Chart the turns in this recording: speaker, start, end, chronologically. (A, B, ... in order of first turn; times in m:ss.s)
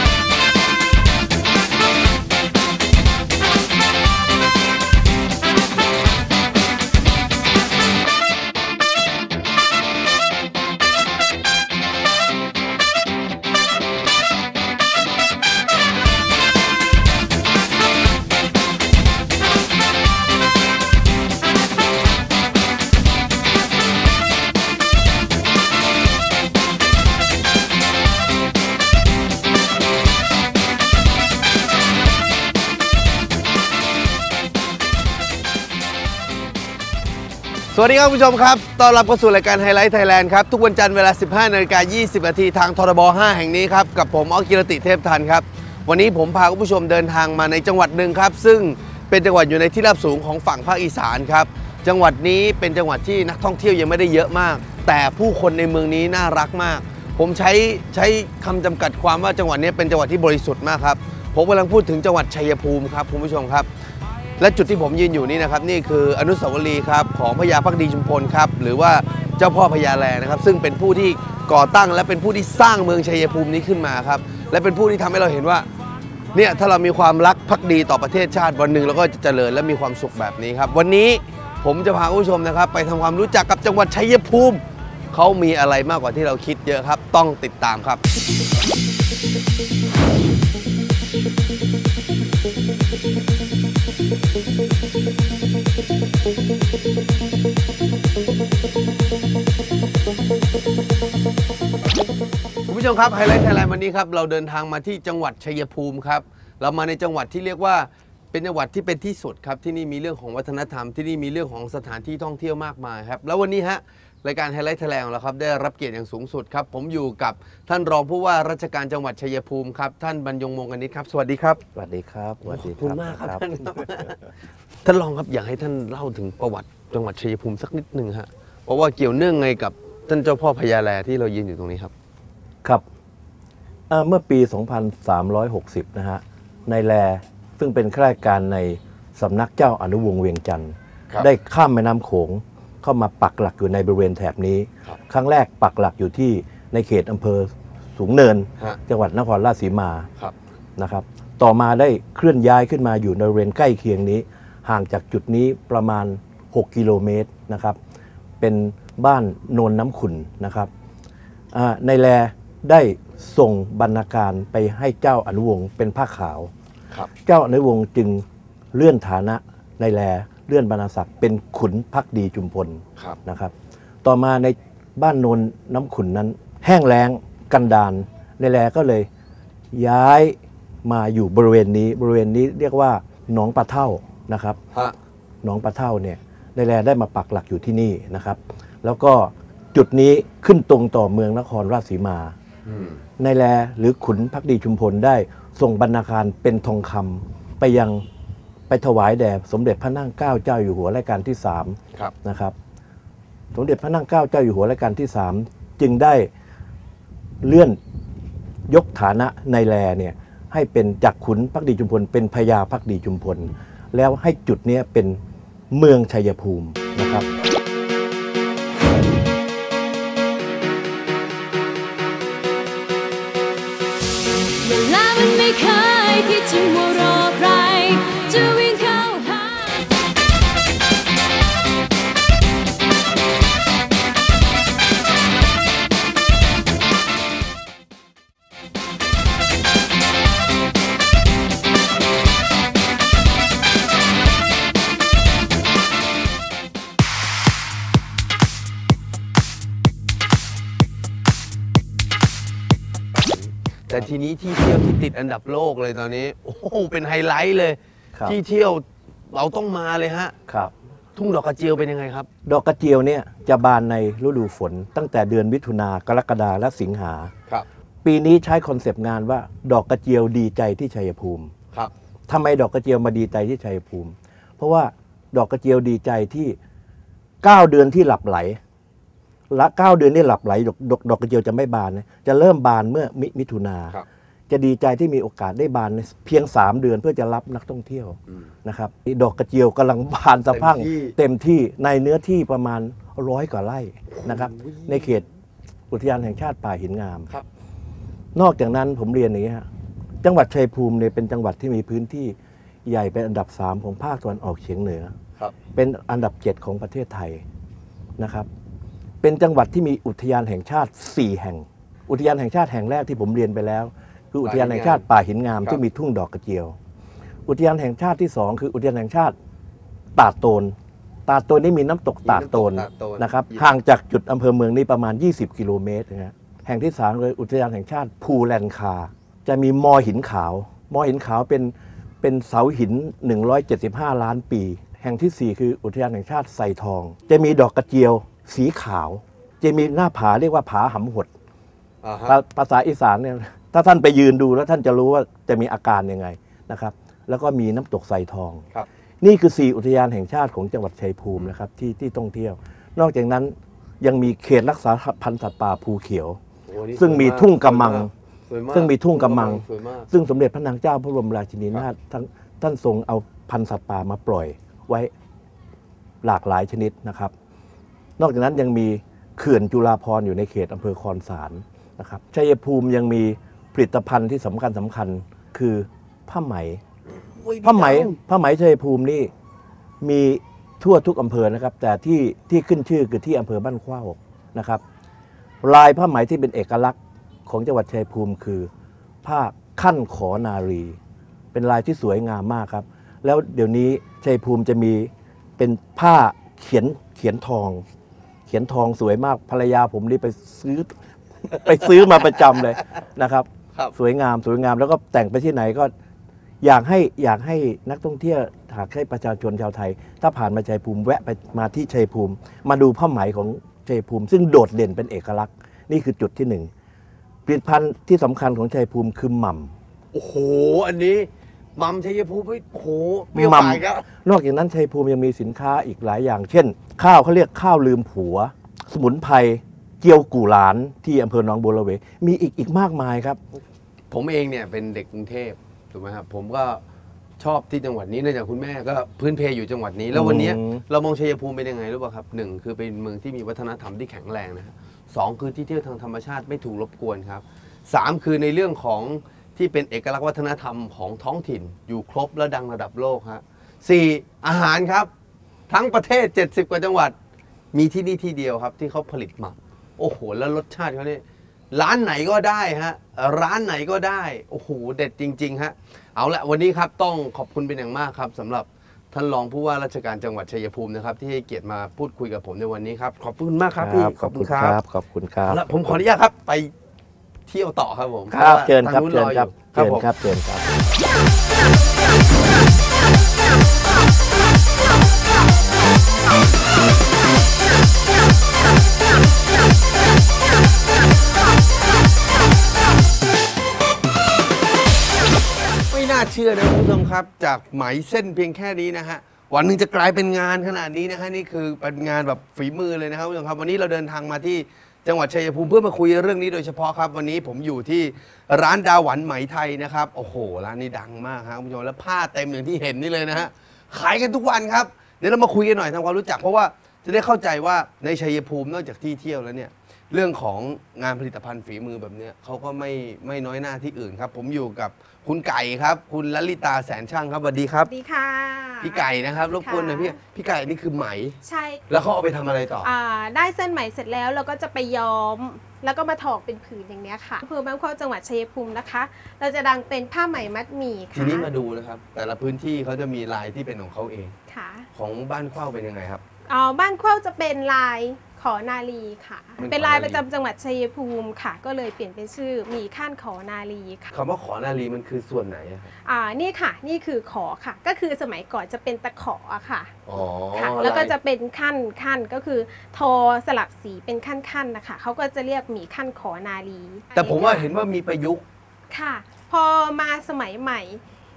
0:37.7-1:03.7 A
1:04.4-1:15.7 A
1:16.3-1:28.0 A
1:42.7-2:01.6 A
2:01.8-2:03.4 B
2:02.4-2:04.2 A
2:04.8-2:11.9 A
2:13.9-2:30.1 B
2:30.8-2:37.8 B
2:38.4-2:40.7 B
2:41.5-2:46.5 B
2:47.2-2:53.5 B
2:54.0-2:59.1 B
2:59.7-3:04.6 B
3:05.4-3:12.3 B
3:12.7-3:13.0 A
3:13.2-3:18.0 B
3:18.7-3:22.6 B
3:23.5-3:26.3 B
3:27.4-3:27.8 B
3:28.7-3:35.2 B
3:35.7-3:37.3 B
3:44.6-3:49.8 C
4:13.2-4:20.3 A
4:20.5-4:20.7 B
4:21.2-4:22.3 A
4:22.4-4:27.3 B
4:28.0-4:31.5 B
4:32.3-4:36.6 B
4:37.4-4:38.6 B
4:39.5-4:55.3 B
4:50.5-4:51.2 A
4:54.1-4:55.2 A
4:55.9-4:57.3 B
4:58.4-4:59.7 B
5:00.2-5:05.1 B
5:05.7-5:07.4 B
5:08.2-5:08.5 B
5:09.2-5:16.8 B
5:14.4-5:15.0 A
5:17.5-5:19.3 B
5:20.2-5:20.8 B
5:21.3-5:41.3 B
5:22.2-5:23.7 A
5:42.0-5:42.4 A
5:42.2-5:48.6 B
5:49.2-5:56.4 B
5:56.7-6:00.1 A
5:57.0-5:58.1 B
5:58.7-6:05.1 B
6:06.2-6:07.3 B
6:08.2-6:16.8 B
6:17.2-6:18.2 A
6:17.6-6:19.3 B
6:20.0-6:24.8 B
6:25.6-6:28.7 B
6:29.2-6:31.0 B
6:31.5-6:37.8 B
6:38.5-6:45.9 B
6:42.0-6:42.7 A
6:46.6-6:56.7 B
6:57.5-6:59.7 B
7:00.1-7:04.0 A
7:03.3-7:13.4 B
7:14.1-7:16.8 A
7:17.4-7:35.1 A
7:20.1-7:20.8 B
7:35.7-7:37.2 A
7:37.7-7:54.8 A
7:53.8-7:55.6 B
7:55.4-7:56.7 A
7:57.5-8:00.1 A
7:58.3-8:00.8 B
8:15.9-8:47.9 A
8:47.9-8:50.2 D
8:48.8-8:52.9 A
8:51.4-8:51.8 D
8:52.8-9:01.5 D
9:01.1-9:04.4 A
9:04.5-9:04.9 D
9:04.9-9:06.2 A
9:06.5-9:14.1 D
9:09.6-9:10.2 A
9:14.1-9:15.9 A
9:16.0-9:19.9 D
9:20.1-9:21.2 A
9:20.5-9:27.7 D
9:27.2-9:28.4 A
9:28.9-9:31.0 D